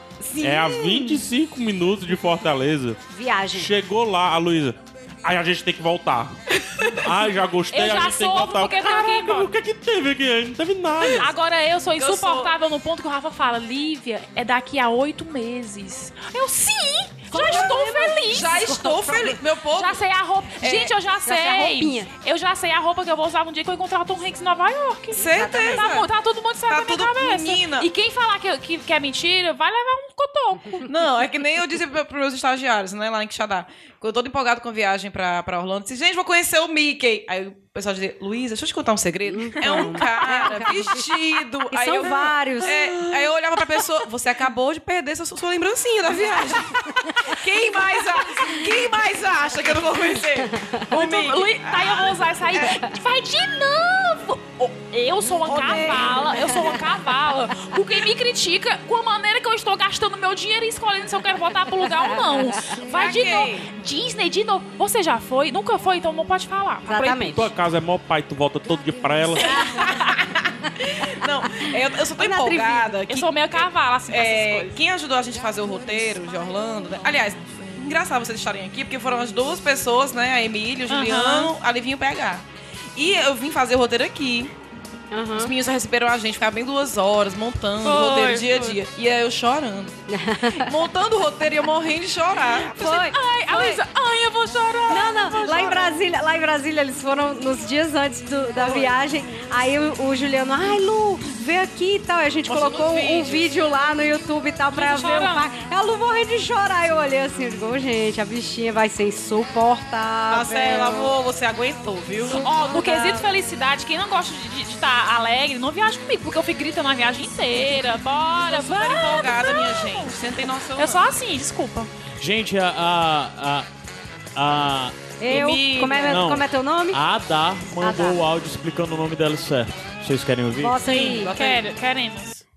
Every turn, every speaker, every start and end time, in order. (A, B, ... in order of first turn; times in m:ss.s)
0:00.2-0:01.3 A
0:00.4-0:03.0 B
0:03.1-0:03.7 C
0:03.5-0:11.3 B
0:06.8-0:07.0 A
0:07.7-0:09.5 D
0:11.2-0:30.9 D
0:12.0-0:12.5 A
0:17.3-0:19.3 C
0:17.4-0:20.0 A
0:20.6-0:20.9 A
0:21.2-0:22.1 C
0:25.2-0:26.1 A
0:25.3-0:25.9 C
0:26.7-0:27.9 A
0:30.9-0:52.2 A
0:39.3-0:43.3 C
0:39.6-0:40.0 D
0:50.9-1:07.5 D
0:55.4-0:56.6 A
1:02.0-1:02.6 C
1:02.9-1:03.7 A
1:06.9-1:07.5 C
1:07.3-1:09.4 B
1:09.4-1:22.4 A
1:09.4-1:10.1 C
1:12.2-1:12.9 C
1:13.1-1:14.7 D
1:20.9-1:21.5 D
1:23.0-1:24.5 A
1:25.1-1:25.5 C
1:25.4-1:30.0 A
1:27.8-1:28.8 D
1:30.1-1:30.7 C
1:30.5-1:33.1 A
1:32.6-1:33.8 C
1:33.0-1:35.9 D
1:34.9-1:51.1 C
1:38.6-1:39.0 A
1:42.5-1:43.6 A
1:44.7-1:45.5 D
1:50.3-1:52.4 A
1:52.3-1:53.2 C
1:52.3-2:00.2 D
1:58.4-2:01.1 A
2:00.8-2:01.9 D
2:02.2-2:03.7 E
2:04.4-2:05.0 E
2:05.2-2:07.0 C
2:05.3-2:06.2 A
2:06.0-2:10.8 E
2:07.8-2:08.2 C
2:10.6-2:11.3 C
2:10.8-2:11.6 A
2:11.3-2:12.4 D